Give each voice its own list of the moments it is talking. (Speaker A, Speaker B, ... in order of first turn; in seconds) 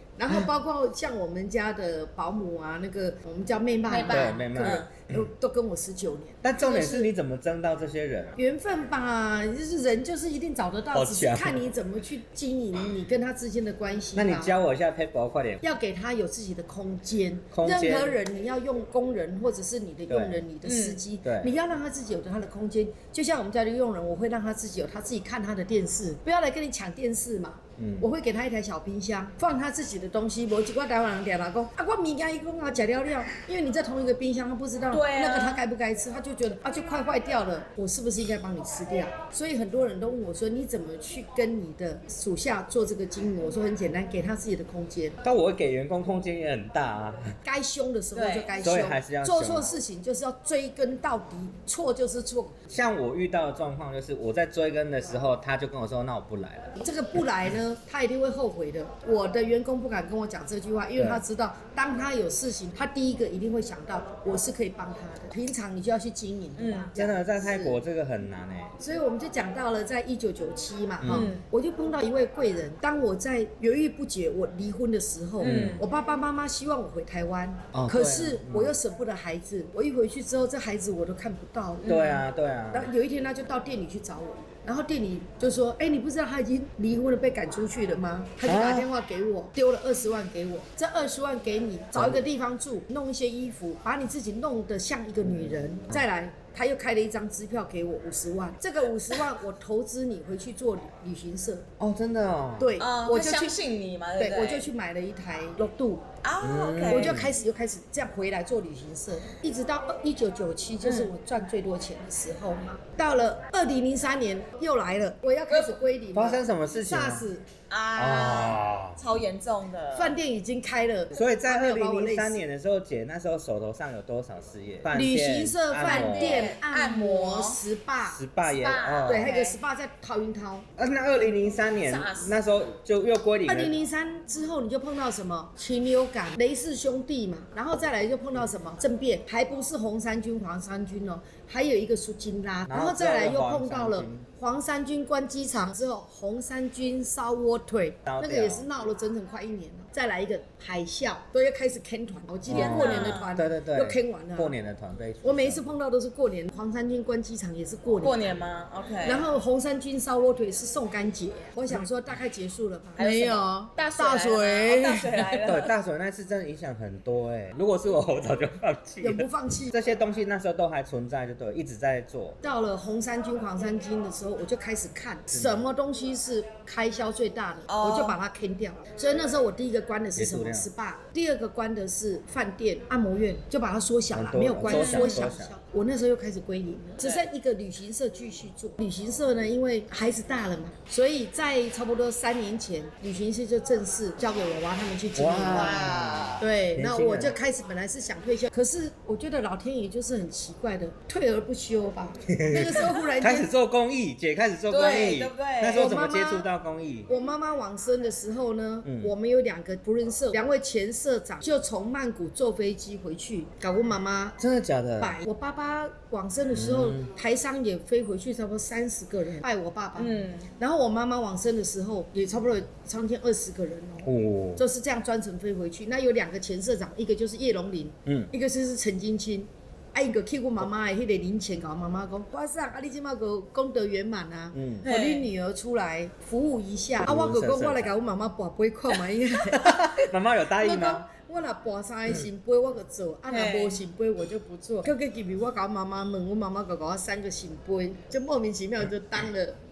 Speaker A: 0.2-7.1, 8.3-14.6, 15.6-45.2, 47.4-52.6, 56.8-67.8, 68.8-82.1, 82.7-101.7, 102.6-103.6, 104.2-106.1, 106.9-117.5, 119.9-122.4, 124.9-128.2, 129.1-130.7, 133.5-154.5, 155.2-158.3, 159.0-165.5, 169.0-169.7, 172.4-203.5, 205.8-206.5, 207.1-214.4, 215.0-249.6
Speaker B: 3.9-4.9, 20.6-21.0, 34.9-35.6, 48.1-48.5, 66.6-66.9, 71.1-71.4, 75.4-75.8, 81.8-82.2, 102.8-104.7, 106.2-107.2, 110.8-111.1, 115.5-115.7, 117.7-120.2, 125.8-127.6, 128.4-129.6, 131.8-132.3, 152.5-153.3, 158.0-159.2, 163.0-165.7, 177.7-178.2, 184.7-185.3, 187.0-187.2, 195.5-196.4, 204.7-205.8, 219.9-220.5, 234.8-235.3, 243.3-243.8
Speaker C: 4.1-5.2, 6.4-8.4, 10.9-11.6, 14.1-15.6, 17.5-18.2, 20.1-20.4, 21.2-21.5, 27.8-28.1, 45.2-47.3, 48.6-49.7, 52.7-56.8, 61.0-61.2, 67.0-68.8, 71.0-71.3, 75.4-75.8, 77.7-78.7, 81.8-82.9, 88.4-88.9, 91.9-92.2, 95.2-96.0, 101.8-102.7, 106.4-107.3, 116.1-117.3, 118.0-119.0, 121.1-126.5, 128.1-129.3, 130.8-133.8, 142.7-144.2, 148.1-148.7, 152.5-155.6, 165.4-172.4, 175.3-175.6, 180.1-180.7, 184.1-185.6, 195.1-197.3, 202.3-207.1, 208.8-209.1, 214.4-215.2, 216.5-217.1, 224.0-224.6, 234.5-234.8, 237.0-237.9, 239.4-241.1